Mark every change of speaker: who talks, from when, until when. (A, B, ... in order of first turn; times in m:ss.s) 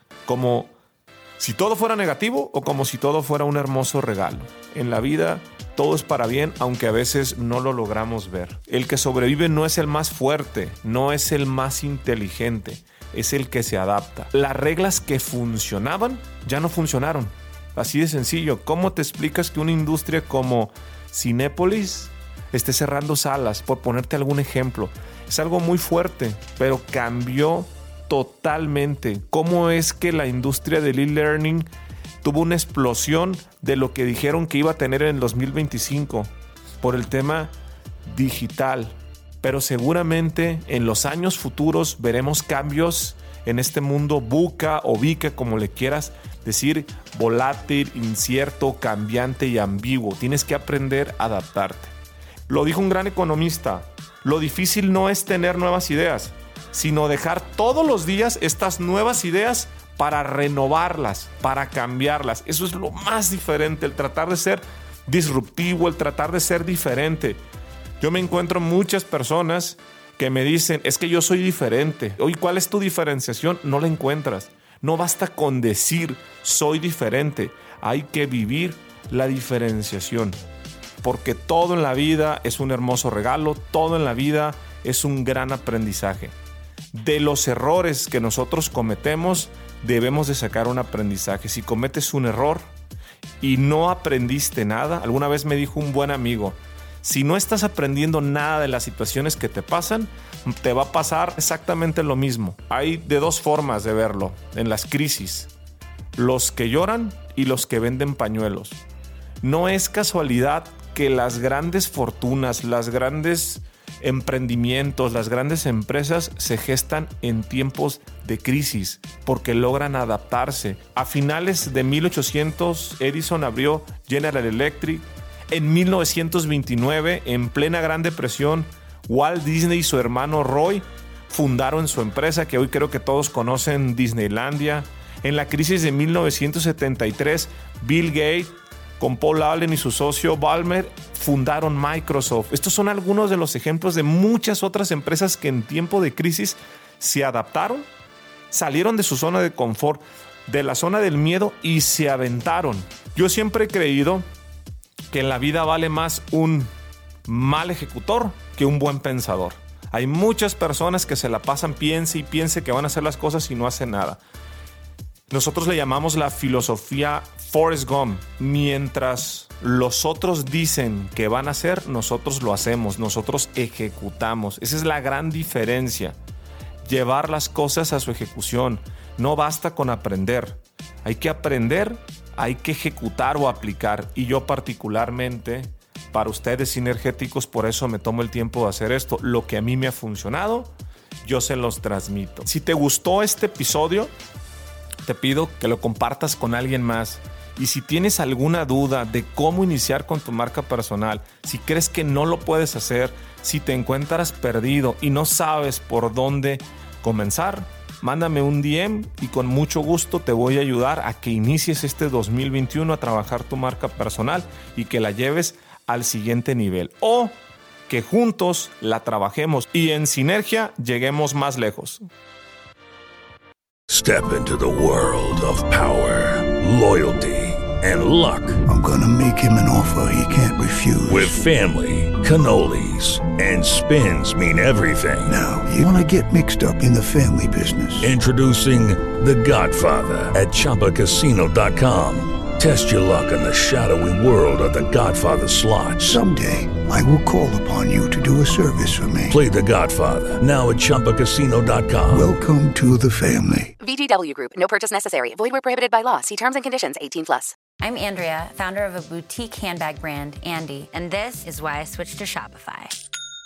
0:00.2-0:00.7 A
0:01.4-0:31.7 A
0:32.2-0:37.5 A
0:38.0-0:51.9 A
0:52.5-1:07.4 A
1:08.0-1:20.4 A
1:21.0-1:26.3 A
1:26.9-1:32.7 A
1:33.4-1:45.5 A
1:46.2-1:48.8 A
1:49.4-2:27.9 A
2:28.5-2:34.2 A
2:35.1-2:36.7 A
2:37.3-2:44.2 A
2:45.3-2:56.2 A
2:56.8-3:10.7 A
3:11.2-3:14.1 A
3:15.0-3:42.0 A
3:43.9-3:48.6 B
3:48.7-3:51.4 C
3:51.1-3:55.3 B
3:55.2-3:58.2 C
3:58.0-4:06.1 B
4:06.0-4:09.4 C
4:09.3-4:12.2 B
4:12.1-4:13.7 C
4:13.8-4:17.5 D
4:17.8-4:23.0 E